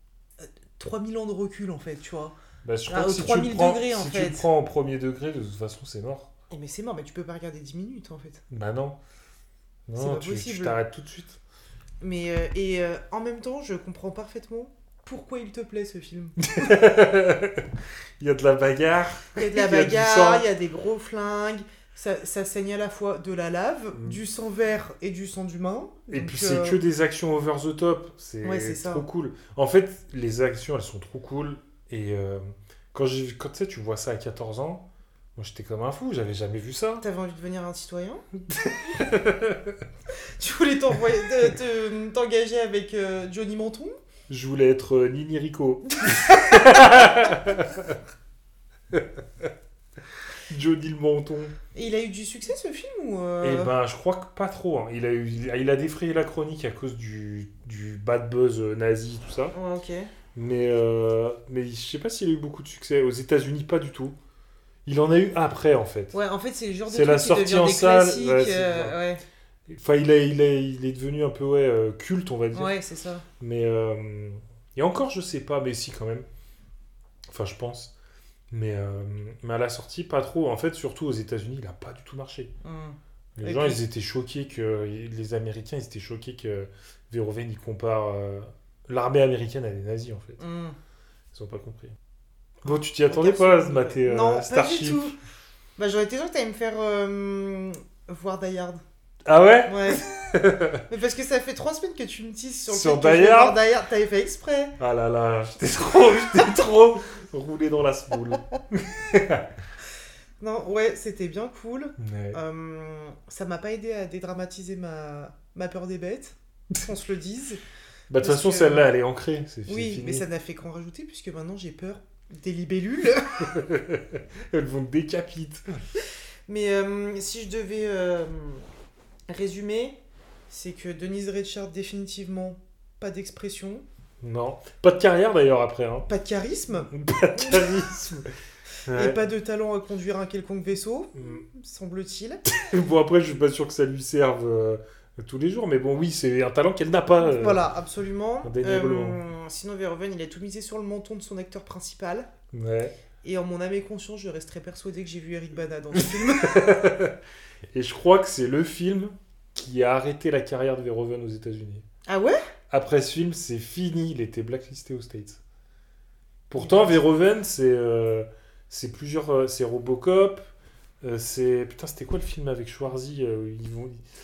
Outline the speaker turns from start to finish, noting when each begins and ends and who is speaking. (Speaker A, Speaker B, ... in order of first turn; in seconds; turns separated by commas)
Speaker A: 0.4-2.4, Speaker B: 2.6-6.3, Speaker A: 2.9-4.5, Speaker A: 6.5-8.4, Speaker B: 8.5-9.0, Speaker B: 9.9-11.4, Speaker A: 9.9-10.8, Speaker A: 12.0-16.8, Speaker B: 16.4-20.5, Speaker A: 19.4-26.8, Speaker B: 26.1-37.1, Speaker A: 28.4-29.1, Speaker A: 37.0-38.2, Speaker B: 38.5-39.8, Speaker A: 40.4-44.0, Speaker B: 44.3-48.0, Speaker B: 48.9-49.5, Speaker B: 50.5-51.5, Speaker A: 51.7-53.7, Speaker B: 53.4-59.6, Speaker A: 59.5-60.1, Speaker B: 60.4-64.2, Speaker B: 64.9-66.2, Speaker A: 66.1-69.2, Speaker B: 66.9-69.0, Speaker B: 69.7-72.8, Speaker A: 72.5-73.3, Speaker B: 73.4-76.3, Speaker B: 77.3-77.9, Speaker B: 78.5-82.5, Speaker A: 82.6-83.8, Speaker B: 83.4-90.4, Speaker A: 90.4-90.8, Speaker B: 91.3-92.0, Speaker B: 92.6-95.2, Speaker A: 92.7-95.2, Speaker A: 95.8-98.8, Speaker B: 99.2-100.8, Speaker A: 99.7-100.0, Speaker A: 100.9-104.8, Speaker B: 102.7-103.6, Speaker B: 104.8-109.5, Speaker A: 110.4-117.6, Speaker B: 112.0-112.4, Speaker B: 118.1-120.3, Speaker A: 118.2-118.9, Speaker A: 119.7-123.5, Speaker B: 123.4-125.8, Speaker A: 126.5-128.7, Speaker A: 129.3-133.8, Speaker B: 134.2-136.1, Speaker A: 136.1-137.8, Speaker B: 136.8-138.3, Speaker B: 138.9-139.2, Speaker A: 138.9-142.4, Speaker B: 141.2-141.4, Speaker B: 142.5-147.7, Speaker A: 147.2-152.3, Speaker B: 148.4-149.2, Speaker B: 152.5-152.9, Speaker A: 153.2-156.7, Speaker B: 156.1-157.2, Speaker B: 157.7-161.8, Speaker A: 162.1-162.4, Speaker B: 162.7-165.4, Speaker B: 166.5-170.5, Speaker A: 166.6-167.1, Speaker B: 171.0-174.0